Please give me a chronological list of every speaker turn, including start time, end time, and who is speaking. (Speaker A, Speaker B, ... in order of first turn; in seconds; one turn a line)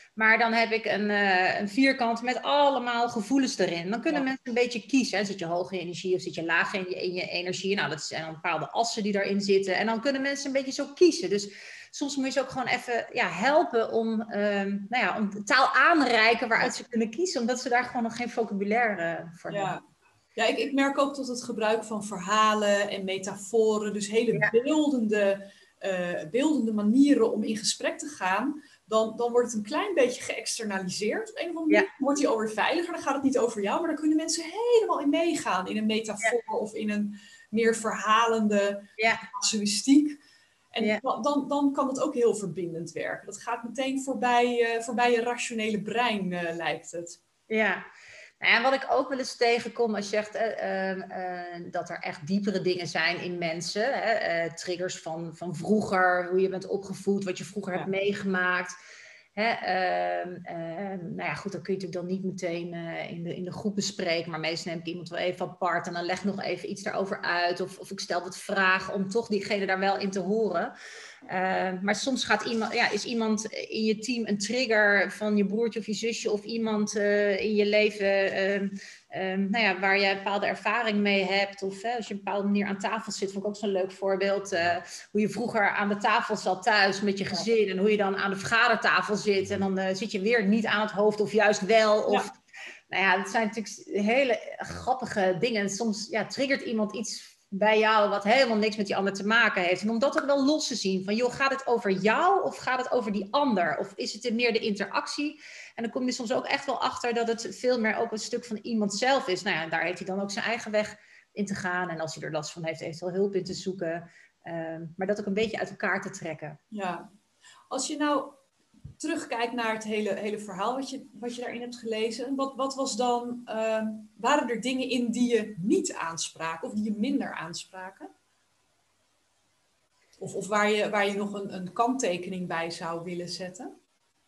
Speaker A: 0.2-19.8
Speaker B: 19.5-19.8
Speaker B: 20.4-40.2
Speaker A: 39.0-39.3
Speaker B: 40.7-47.2
Speaker A: 47.5-47.8
Speaker A: 48.4-58.7
Speaker A: 59.4-70.7
Speaker A: 71.3-92.3
Speaker A: 92.9-116.6
Speaker B: 116.7-117.1
Speaker B: 117.7-118.4
Speaker B: 119.0-128.1
Speaker B: 130.2-133.7